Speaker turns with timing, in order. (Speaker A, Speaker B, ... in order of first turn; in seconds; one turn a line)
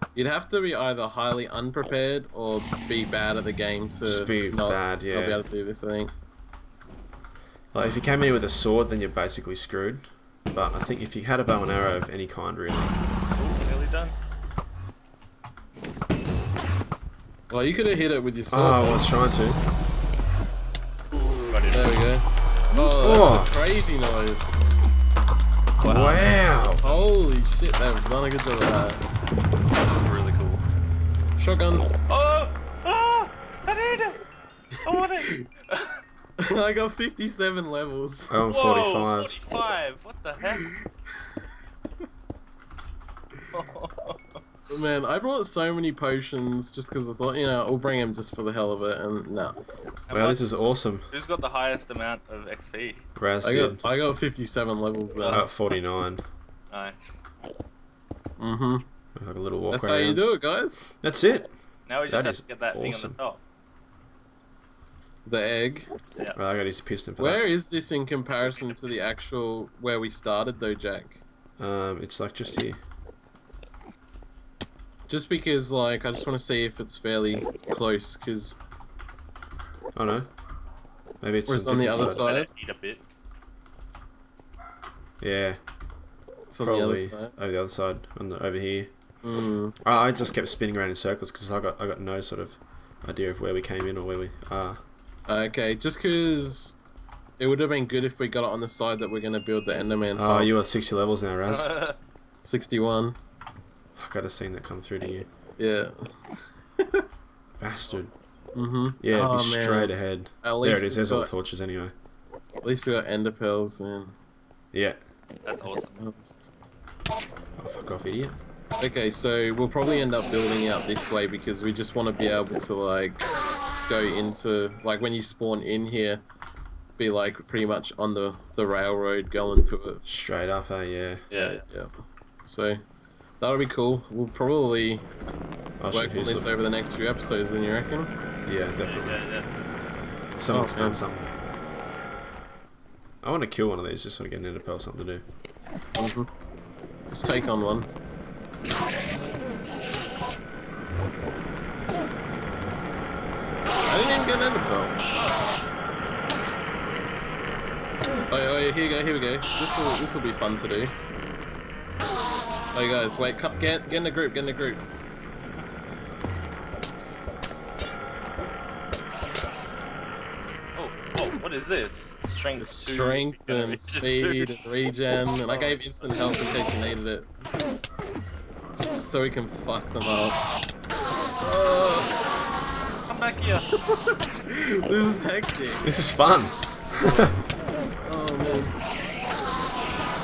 Speaker A: 0.1-6.1
Speaker B: 4.0-5.4
Speaker B: 7.7-13.0
Speaker C: 13.3-14.1
Speaker A: 17.5-19.1
Speaker B: 18.5-19.6
Speaker C: 21.5-21.9
Speaker A: 21.7-24.6
Speaker B: 22.8-23.5
Speaker C: 25.8-27.1
Speaker B: 25.9-26.8
Speaker A: 26.8-29.0
Speaker C: 29.8-30.6
Speaker A: 31.4-31.9
Speaker C: 32.1-34.2
Speaker C: 34.8-36.0
Speaker A: 36.4-38.4
Speaker B: 38.3-39.4
Speaker C: 38.5-40.7
Speaker C: 43.5-44.4
Speaker A: 44.7-49.6
Speaker C: 50.1-50.4
Speaker B: 50.1-51.1
Speaker C: 51.1-53.0
Speaker B: 53.1-53.9
Speaker A: 53.4-55.4
Speaker C: 55.1-55.7
Speaker B: 55.3-56.2
Speaker C: 56.7-57.0
Speaker A: 58.4-58.9
Speaker B: 59.1-60.2
Speaker A: 59.7-60.9
Speaker B: 61.0-61.5
Speaker C: 61.9-63.4
Speaker B: 62.1-63.2
Speaker A: 65.2-65.9
Speaker B: 66.3-67.4
Speaker A: 67.2-71.2
Speaker C: 68.5-69.0
Speaker B: 71.6-72.8
Speaker A: 75.1-78.6
Speaker B: 79.9-80.3
Speaker B: 81.2-82.2
Speaker A: 81.5-82.5
Speaker C: 81.9-83.0
Speaker B: 85.2-85.6
Speaker A: 86.5-87.3
Speaker B: 86.6-88.9
Speaker A: 89.2-89.7
Speaker B: 89.8-94.8
Speaker A: 95.3-96.8
Speaker A: 97.4-100.5
Speaker B: 100.1-101.7
Speaker C: 101.5-102.0
Speaker A: 102.4-103.2
Speaker B: 104.0-105.3
Speaker A: 105.6-107.0
Speaker B: 107.6-108.1
Speaker A: 108.5-111.3
Speaker B: 109.0-111.9
Speaker A: 112.6-114.1
Speaker B: 114.7-115.0
Speaker C: 115.5-116.1
Speaker A: 116.0-116.5
Speaker B: 117.6-118.4
Speaker A: 118.8-123.2
Speaker A: 123.8-126.2
Speaker A: 127.0-130.0
Speaker B: 130.0-131.2
Speaker C: 131.3-131.6
Speaker A: 131.3-132.8
Speaker A: 133.4-135.1
Speaker B: 135.8-136.5
Speaker A: 135.9-138.1
Speaker B: 138.4-139.2
Speaker C: 138.8-139.5
Speaker B: 140.4-141.3
Speaker A: 140.5-141.0
Speaker B: 143.2-145.2
Speaker A: 145.9-146.3
Speaker A: 147.1-147.9
Speaker A: 153.8-155.0
Speaker C: 155.1-155.5
Speaker A: 158.3-160.9
Speaker A: 162.7-164.8
Speaker C: 170.8-174.6
Speaker A: 172.6-177.3
Speaker C: 175.4-176.1
Speaker A: 178.8-180.4
Speaker A: 181.4-182.1
Speaker C: 183.1-183.7
Speaker A: 183.8-185.9
Speaker B: 185.8-187.3
Speaker A: 187.0-187.4
Speaker A: 188.0-188.8